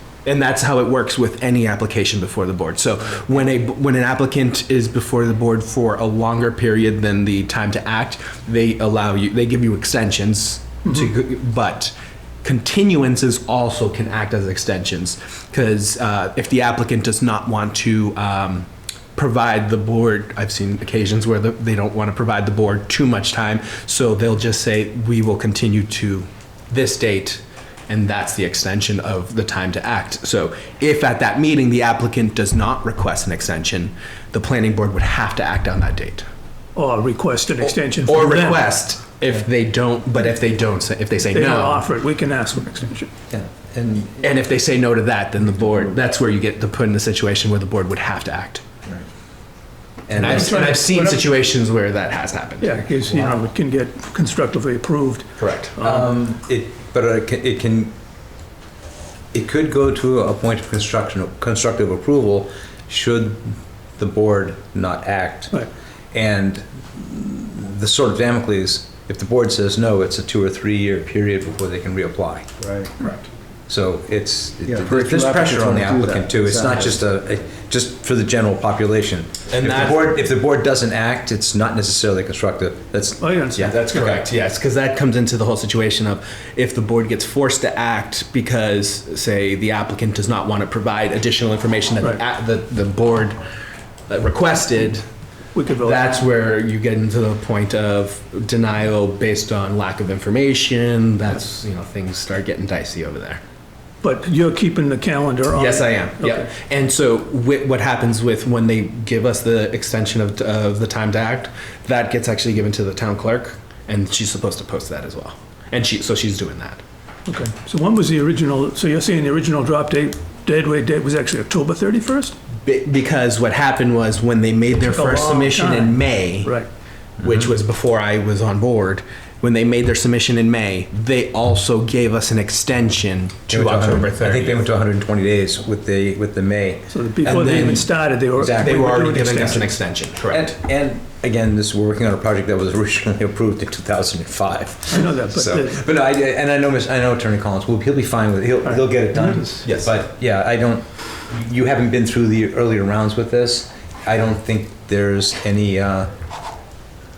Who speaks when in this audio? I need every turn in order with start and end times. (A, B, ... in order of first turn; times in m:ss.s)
0:00.2-0:36.3 A
0:36.8-0:38.7 B
0:37.7-0:41.8 A
0:41.3-0:43.1 B
0:43.3-0:44.2 C
0:44.2-0:48.6 A
0:50.1-0:50.6 C
0:50.2-0:52.8 A
0:50.2-0:51.3 B
0:52.6-0:56.1 B
0:55.4-0:55.8 A
0:55.8-0:57.9 C
0:59.3-1:03.5 C
1:04.0-1:05.5 C
1:06.1-1:12.5 C
1:12.6-1:13.2 D
1:13.7-1:23.2 C
1:14.6-1:17.0 D
1:19.5-1:20.1 A
1:23.2-1:24.2 B
1:23.6-1:33.4 A
1:34.1-1:35.0 A
1:35.5-1:36.2 B
1:35.8-1:43.4 A
1:44.0-1:46.5 B
1:45.5-1:56.8 A
1:57.3-2:02.3 B
2:02.6-2:06.6 A
2:04.7-2:06.7 B
2:07.2-2:14.7 A
2:13.5-2:16.8 C
2:16.9-2:19.7 B
2:17.2-2:18.0 A
2:18.4-2:19.6 C
2:18.6-2:20.5 A
2:20.3-2:36.1 C
2:24.9-2:25.8 B
2:28.6-2:29.6 B
2:29.6-2:30.0 A